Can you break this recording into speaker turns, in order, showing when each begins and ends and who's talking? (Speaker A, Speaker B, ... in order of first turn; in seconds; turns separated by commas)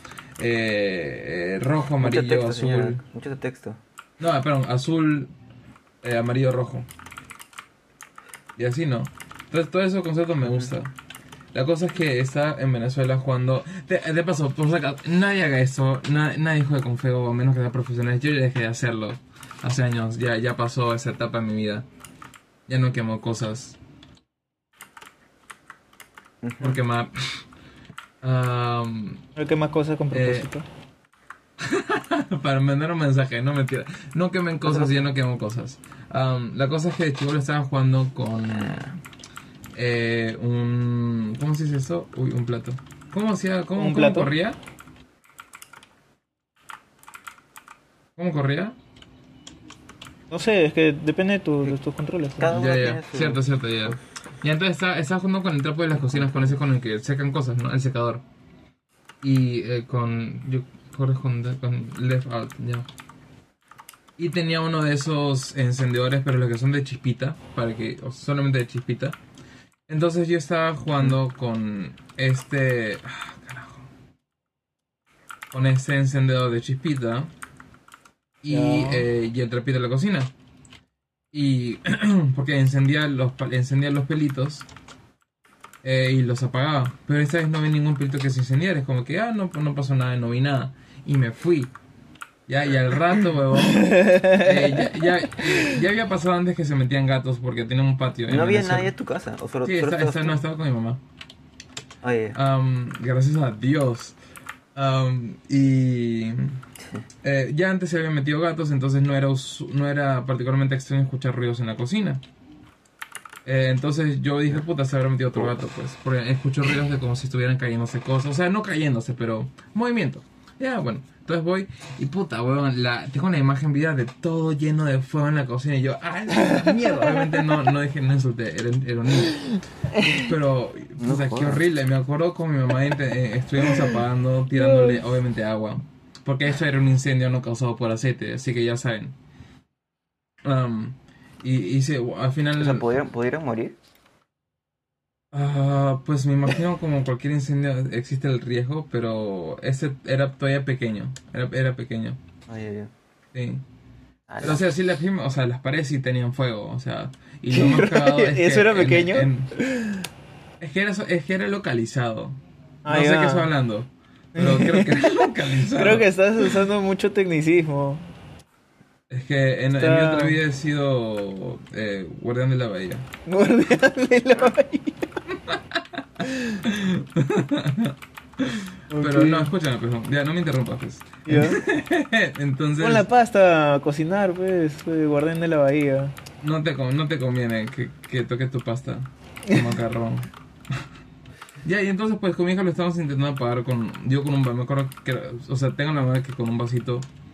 Speaker A: 0.4-3.0, Speaker B: 2.0-3.8, Speaker A: 4.2-5.3, Speaker A: 6.0-6.9, Speaker A: 8.6-10.9, Speaker B: 10.4-10.7, Speaker A: 11.5-21.9, Speaker A: 22.7-23.8, Speaker B: 26.4-26.8, Speaker A: 26.6-27.4, Speaker A: 28.2-29.2, Speaker C: 29.4-30.6, Speaker A: 30.1-30.5, Speaker A: 31.6-38.8, Speaker B: 34.6-35.0, Speaker B: 38.5-39.0, Speaker A: 39.7-44.6, Speaker C: 43.7-44.3, Speaker A: 48.1-48.8, Speaker C: 50.3-52.5, Speaker B: 52.4-54.0, Speaker A: 52.5-58.2, Speaker B: 56.0-56.5, Speaker A: 59.2-62.9, Speaker A: 64.2-69.2, Speaker A: 69.9-73.9, Speaker A: 75.5-77.3, Speaker A: 78.4-80.3, Speaker C: 78.5-79.1, Speaker A: 81.3-84.7, Speaker A: 85.8-91.7, Speaker A: 92.5-98.9, Speaker C: 93.5-95.8, Speaker B: 98.3-100.4, Speaker A: 99.6-101.0, Speaker B: 102.0-102.4, Speaker A: 102.3-104.2, Speaker A: 104.7-106.6, Speaker A: 107.2-112.2, Speaker A: 113.4-129.4, Speaker C: 126.4-127.2, Speaker C: 129.9-130.3, Speaker A: 130.0-139.2, Speaker B: 131.0-131.6, Speaker C: 134.5-135.0, Speaker A: 140.4-142.9, Speaker B: 142.6-143.8, Speaker A: 145.3-152.2, Speaker B: 152.5-152.9, Speaker A: 153.3-153.6, Speaker B: 154.3-154.6, Speaker A: 154.4-159.5, Speaker C: 157.5-160.1, Speaker A: 160.6-166.6, Speaker C: 162.8-163.5, Speaker C: 164.3-168.0, Speaker A: 169.1-173.1, Speaker C: 169.8-170.4, Speaker C: 173.2-175.2, Speaker A: 175.3-183.1, Speaker C: 176.2-176.6, Speaker C: 178.9-179.5, Speaker C: 181.2-181.6, Speaker C: 182.8-186.2, Speaker A: 186.4-190.8, Speaker A: 191.6-197.1